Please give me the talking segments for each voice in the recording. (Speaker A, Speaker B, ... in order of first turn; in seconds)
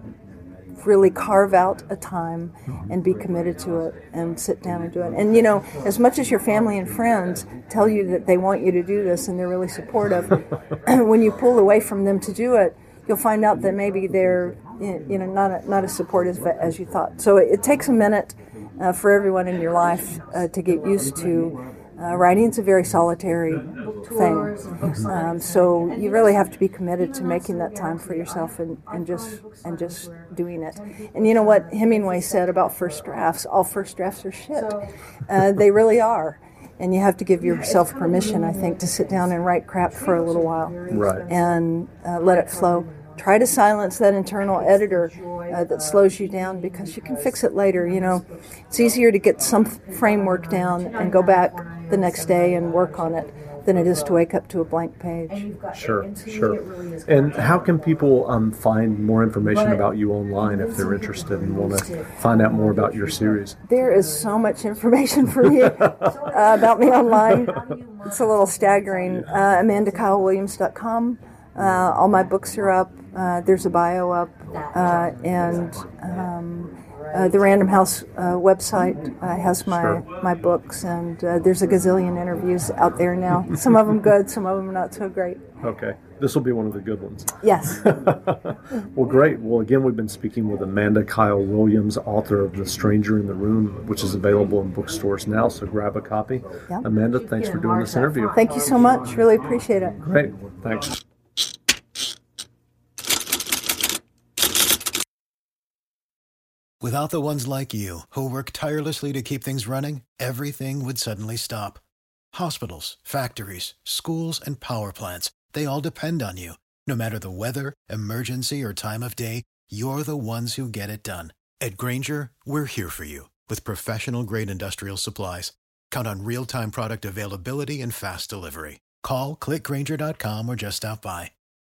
Speaker A: 0.8-55.5, 63.7-85.4, 87.4-87.8, 98.3-100.0
Speaker B: 40.9-41.3, 55.7-63.6, 79.7-80.0, 85.6-98.4, 100.0-101.0
Speaker C: 106.8-131.3